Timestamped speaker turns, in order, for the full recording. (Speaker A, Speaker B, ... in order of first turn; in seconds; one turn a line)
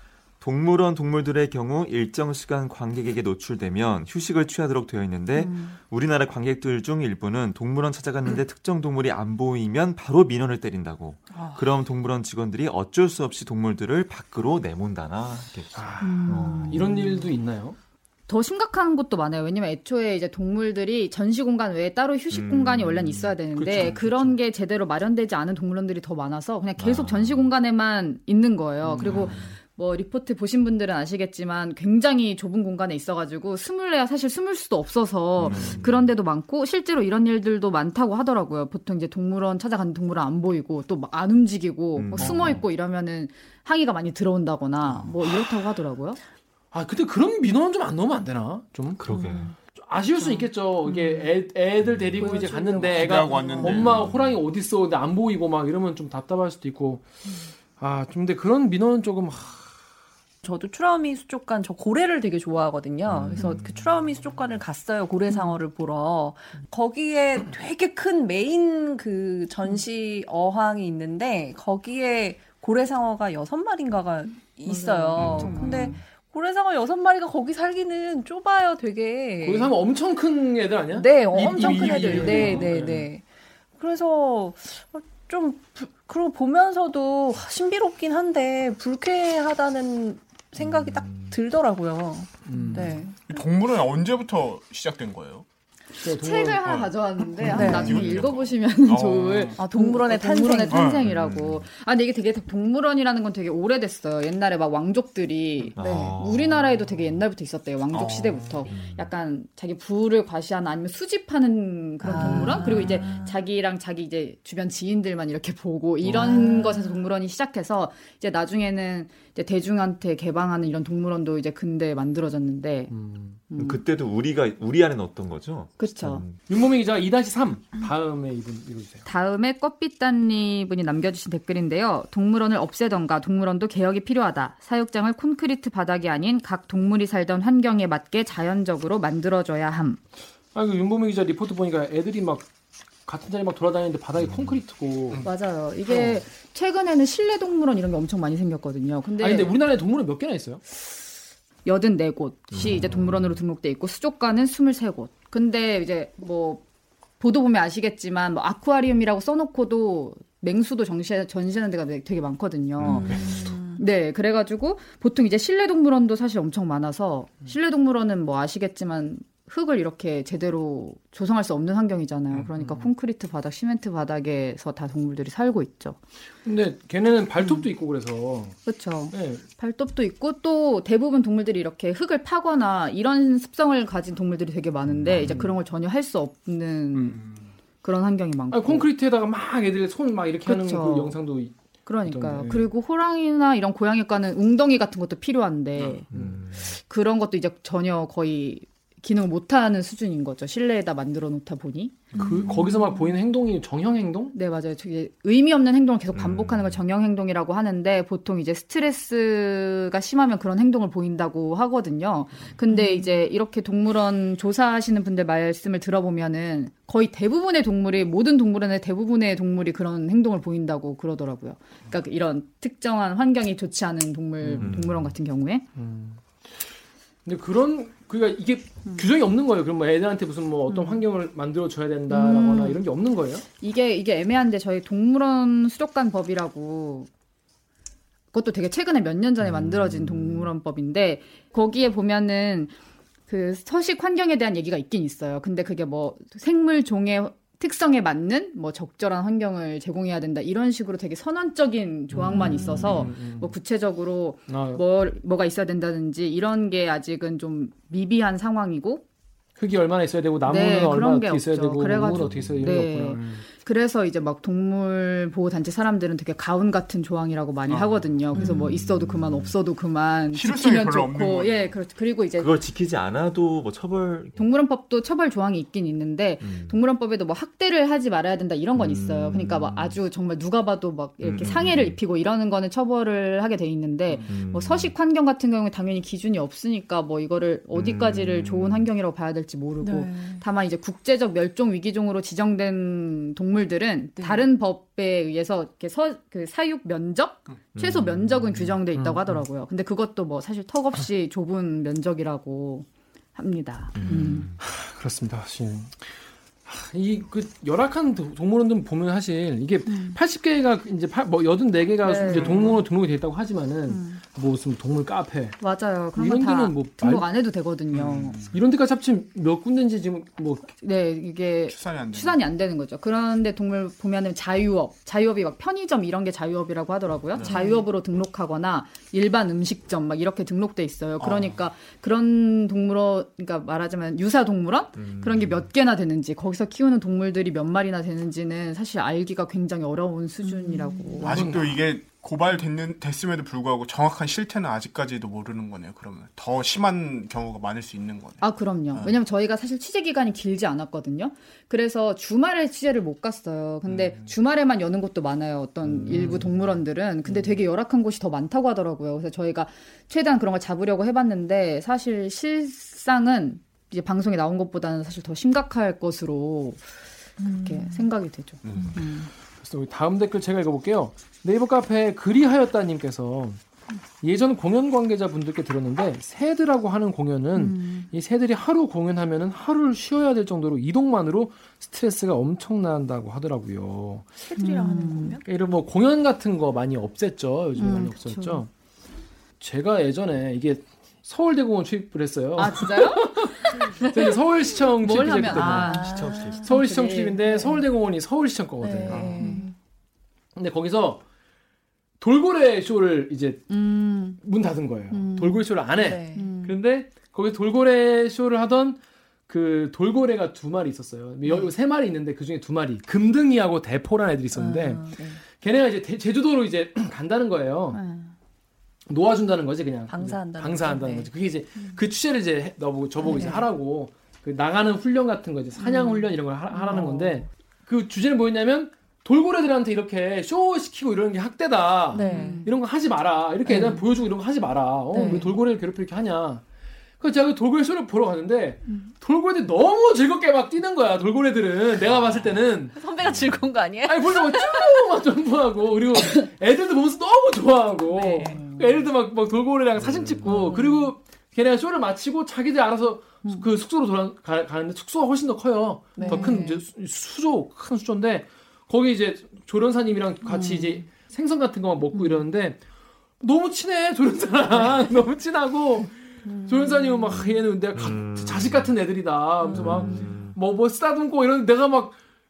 Speaker A: 0.4-17.1
Speaker B: 5.4-5.7
Speaker C: 11.3-11.7
Speaker D: 15.7-17.8
Speaker B: 16.0-17.1
Speaker B: 18.3-46.2
Speaker A: 22.3-23.3
Speaker D: 23.5-24.4
Speaker A: 26.8-27.5
Speaker D: 28.9-29.4
Speaker A: 29.0-29.5
Speaker A: 35.4-36.1
Speaker D: 35.5-35.8
Speaker A: 41.9-42.6
Speaker D: 46.7-49.0
Speaker A: 49.0-49.5
Speaker C: 49.1-49.5
Speaker D: 49.7-57.0
Speaker B: 50.2-50.5
Speaker C: 51.0-51.2
Speaker C: 52.2-53.9
Speaker B: 52.2-53.8
Speaker E: 52.9-54.0
Speaker A: 53.6-54.3
Speaker D: 57.8-59.7
Speaker C: 60.4-79.7
Speaker A: 63.1-63.7
Speaker B: 74.7-76.0
Speaker A: 75.2-75.7
Speaker D: 79.4-83.1
Speaker C: 80.9-83.2
Speaker E: 81.4-82.7
Speaker C: 83.8-93.2
Speaker A: 90.6-91.3
Speaker D: 92.5-93.0
Speaker E: 93.3-95.4
Speaker B: 96.0-122.9
Speaker D: 96.0-96.6
Speaker E: 96.6-99.6
Speaker C: 97.5-98.1
Speaker C: 99.6-100.9
Speaker E: 100.7-101.0
Speaker A: 101.0-101.6
Speaker A: 105.8-106.7
Speaker C: 105.8-106.2
Speaker E: 107.9-108.5
Speaker A: 108.7-109.1
Speaker C: 112.0-113.3
Speaker A: 112.6-113.0
Speaker C: 116.1-116.9
Speaker D: 116.3-116.7
Speaker D: 122.9-123.4
Speaker B: 123.5-123.8
Speaker A: 123.6-126.4
Speaker B: 125.8-126.2
Speaker D: 126.5-129.0
Speaker B: 129.1-140.0
Speaker D: 140.5-145.3
Speaker B: 145.2-149.5
Speaker D: 145.9-146.1
Speaker D: 149.2-150.6
Speaker B: 151.7-156.6
Speaker A: 152.5-153.3
Speaker B: 157.2-163.2
Speaker C: 162.8-163.8
Speaker B: 163.7-176.0
Speaker D: 172.6-172.9
Speaker D: 176.4-178.6
Speaker B: 178.7-187.2
Speaker D: 179.1-179.4
Speaker A: 185.0-185.3
Speaker D: 185.1-185.4
Speaker E: 186.9-187.5
Speaker B: 187.8-188.9
Speaker D: 188.5-191.5
Speaker B: 190.4-191.2
Speaker B: 191.8-202.2
Speaker D: 192.0-192.7
Speaker E: 195.8-196.0
Speaker A: 196.1-196.6
Speaker D: 196.1-196.4
Speaker D: 202.1-204.3
Speaker B: 204.3-225.6
Speaker A: 206.1-206.8
Speaker D: 224.4-224.7
Speaker A: 224.6-225.1
Speaker D: 225.8-226.7
Speaker D: 227.2-233.4
Speaker B: 230.7-231.0
Speaker B: 232.1-232.8
Speaker B: 233.6-237.1
Speaker B: 238.3-242.7
Speaker A: 239.4-240.4
Speaker B: 243.3-259.0
Speaker D: 252.1-253.5
Speaker C: 252.3-252.8
Speaker A: 252.7-253.0
Speaker D: 254.5-254.8
Speaker D: 259.6-263.4
Speaker B: 260.4-272.5
Speaker A: 262.3-262.7
Speaker E: 267.7-268.0
Speaker A: 268.3-269.5
Speaker E: 270.3-271.7
Speaker A: 272.4-274.4
Speaker B: 274.4-304.5
Speaker A: 276.4-276.8
Speaker A: 278.8-280.0
Speaker A: 281.2-282.0
Speaker A: 284.3-284.9
Speaker A: 287.7-288.9
Speaker C: 289.8-290.4
Speaker C: 294.2-294.4
Speaker A: 297.7-298.8
Speaker D: 298.9-299.4
Speaker A: 303.9-304.5
Speaker D: 304.1-306.1
Speaker D: 306.6-315.6
Speaker B: 309.9-310.1
Speaker B: 312.0-312.8
Speaker E: 312.2-312.8
Speaker B: 313.9-314.2
Speaker B: 315.6-318.4
Speaker D: 316.1-317.3
Speaker E: 317.9-318.6
Speaker D: 318.5-320.7
Speaker B: 320.8-341.4
Speaker E: 321.7-322.4
Speaker E: 327.3-327.6
Speaker E: 331.2-331.5
Speaker A: 335.0-335.6
Speaker D: 341.2-341.8
Speaker E: 341.2-349.1
Speaker B: 348.4-366.8
Speaker E: 353.9-354.2
Speaker B: 367.4-369.3
Speaker C: 367.4-368.1
Speaker E: 368.6-369.0
Speaker D: 369.6-373.6
Speaker D: 374.2-384.4
Speaker B: 377.6-378.1
Speaker C: 384.4-385.4
Speaker B: 384.6-385.4
Speaker D: 385.4-388.7
Speaker B: 387.8-388.6
Speaker D: 389.6-396.0
Speaker B: 392.6-394.4
Speaker B: 394.9-397.8
Speaker C: 395.5-396.6
Speaker A: 395.8-396.6
Speaker D: 396.6-399.4
Speaker C: 398.8-399.7
Speaker E: 399.1-399.4
Speaker B: 399.4-399.7
Speaker D: 400.6-401.2
Speaker D: 402.2-403.8
Speaker B: 403.7-404.4
Speaker D: 404.4-418.0
Speaker B: 405.1-405.6
Speaker C: 405.9-406.5
Speaker B: 406.3-406.8
Speaker C: 414.5-415.4
Speaker B: 417.9-418.3
Speaker D: 419.1-436.6
Speaker C: 420.1-421.3
Speaker C: 423.2-423.6
Speaker B: 425.8-426.1
Speaker C: 425.8-427.3
Speaker B: 426.9-427.2
Speaker C: 432.1-432.6
Speaker B: 432.2-432.7
Speaker B: 433.7-433.9
Speaker C: 433.7-434.0
Speaker B: 435.1-435.5
Speaker C: 435.1-435.4
Speaker D: 437.2-443.0
Speaker C: 442.9-445.0
Speaker A: 443.2-443.5
Speaker D: 444.0-462.8
Speaker C: 448.1-448.9
Speaker B: 448.4-448.8
Speaker C: 450.5-451.1
Speaker C: 456.1-456.8
Speaker B: 456.2-456.6
Speaker B: 460.5-461.0
Speaker B: 462.1-462.4
Speaker D: 463.4-472.2
Speaker A: 467.9-468.9
Speaker C: 469.7-470.2
Speaker A: 469.7-470.5
Speaker B: 469.8-470.3